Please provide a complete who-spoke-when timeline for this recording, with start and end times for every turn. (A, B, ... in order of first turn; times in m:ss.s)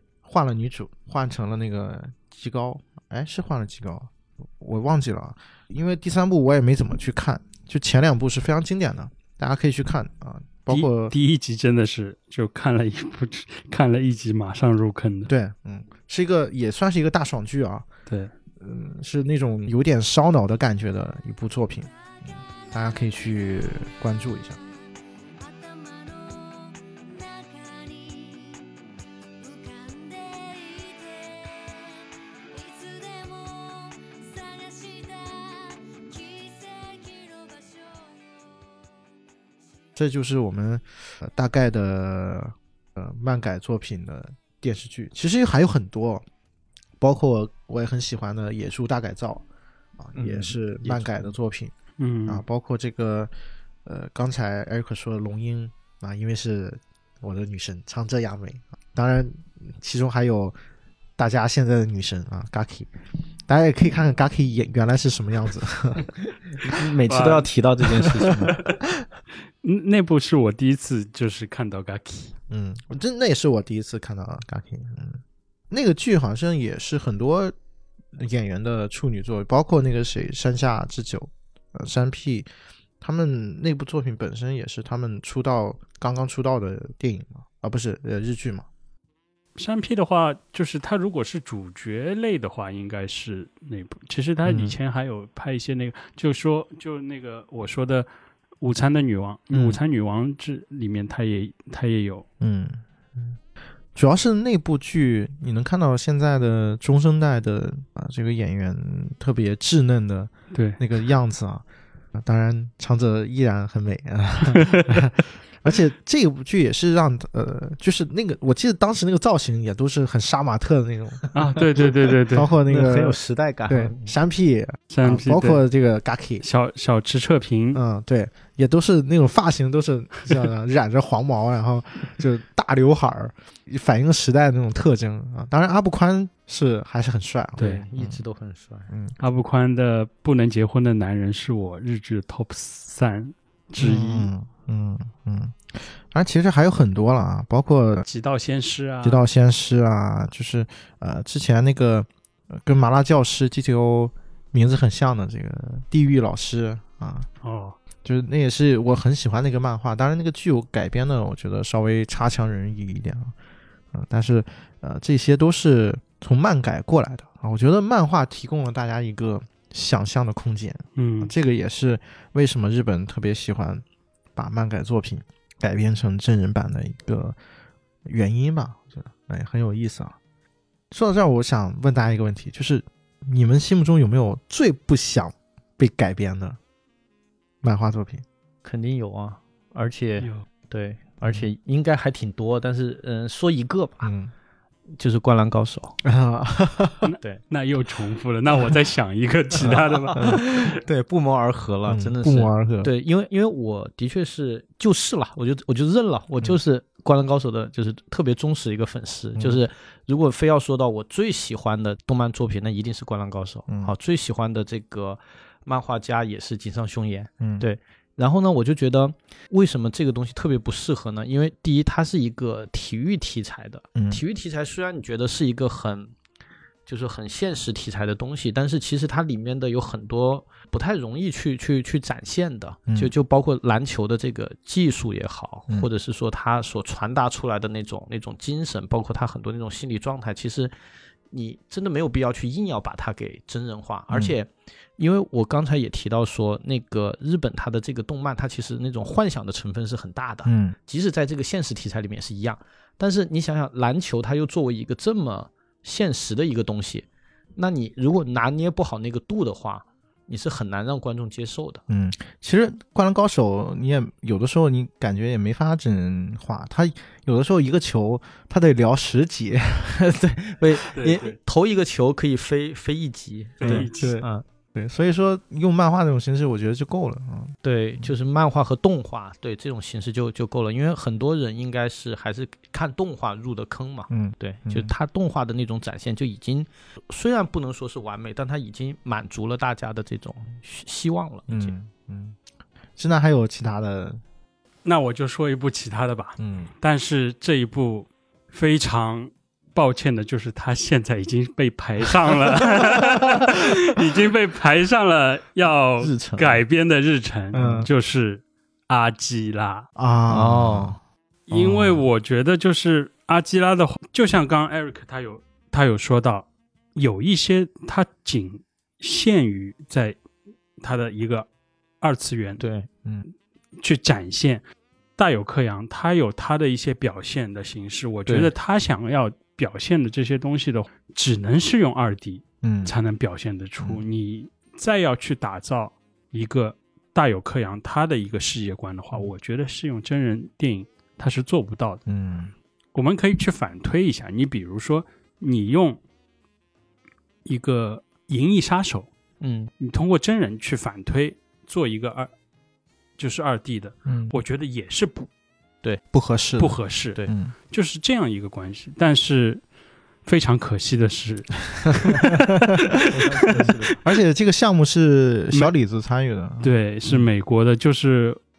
0:00.2-0:11.1 A
0:10.7-0:15.3 B
0:15.3-0:17.9 A
0:18.1-0:18.3 B
0:18.6-0:24.6 A
0:25.4-0:28.8 C
0:29.4-0:38.7 C
0:40.0-0:46.2 A
0:47.0-0:49.4 A
0:50.0-0:51.7 A
0:50.2-0:51.3 D
0:52.0-0:52.4 B
0:52.2-0:53.3 A
0:53.8-1:00.5 A
1:01.2-1:02.9 A
1:03.5-1:06.1 A
1:06.6-1:08.5 D
1:07.1-1:07.5 B
1:08.1-1:08.5 A
1:08.4-1:08.7 B
1:09.6-1:12.3 B
1:12.5-1:17.5 A
1:18.1-1:22.5 A
1:23.0-1:28.7 A
1:29.6-1:38.1 B
1:34.5-1:34.7 A
1:38.6-1:42.2 B
1:39.5-1:39.8 A
1:42.4-1:43.4 A
1:43.9-2:06.4 A
1:50.5-1:50.8 B
1:54.5-1:54.9 B
2:01.3-2:02.5 B
2:02.6-2:04.1 D
2:04.9-2:05.6 B
2:06.4-2:07.8 B
2:07.7-2:18.2 A
2:17.6-2:18.9 D
2:18.9-2:19.2 A
2:19.2-2:24.3 B
2:23.8-2:28.0 A
2:28.0-2:29.2 B
2:29.0-2:37.3 A
2:37.4-2:37.8 B
2:38.0-2:43.3 A
2:43.9-2:53.8 A
2:51.0-2:51.3 B
2:54.4-2:57.4 A
2:58.0-3:00.1 A
3:00.9-3:06.6 A
3:07.6-3:08.2 A
3:08.6-3:14.1 D
3:10.2-3:10.4 B
3:11.2-3:11.5 A
3:14.0-3:14.3 A
3:15.0-3:16.0 D
3:16.0-3:17.0 A
3:17.0-3:20.6 B
3:19.6-3:46.1 D
3:20.2-3:20.4 A
3:21.8-3:22.9 A
3:29.4-3:29.6 A
3:37.4-3:37.6 A
3:43.9-3:44.2 A
3:46.9-4:00.7 D
3:52.9-3:53.1 A
4:01.3-4:17.0 D
4:04.1-4:04.4 A
4:10.4-4:10.8 A
4:17.6-4:21.8 D
4:21.9-4:30.1 A
4:30.0-4:34.4 D
4:30.9-4:31.4 B
4:33.6-4:34.2 B
4:33.6-4:38.1 A
4:37.6-4:51.7 D
4:44.1-4:44.9 A
4:51.5-4:52.4 A
4:53.0-4:54.2 A
4:54.8-5:09.9 B
4:56.4-4:56.7 A
5:06.0-5:06.6 D
5:07.5-5:07.9 A
5:10.0-5:11.0 A
5:10.3-5:11.0 D
5:11.5-5:20.2 B
5:11.5-5:12.0 A
5:20.8-5:21.5 B
5:22.0-5:22.6 B
5:22.6-5:22.9 D
5:23.8-5:24.6 B
5:25.2-5:42.0 B
5:28.3-5:28.5 D
5:32.6-5:32.9 A
5:42.0-5:42.5 A
5:42.9-5:46.0 B
5:47.4-5:49.1 B
5:49.4-5:49.7 D
5:49.8-5:52.3 B
5:53.2-5:55.3 B
5:54.0-5:54.4 A
5:56.1-5:57.5 A
5:56.6-5:57.2 B
5:57.7-5:59.6 B
6:00.2-6:02.4 B
6:02.1-6:02.8 A
6:02.9-6:03.8 B
6:03.1-6:04.0 D
6:03.6-6:07.3 A
6:06.6-6:08.4 B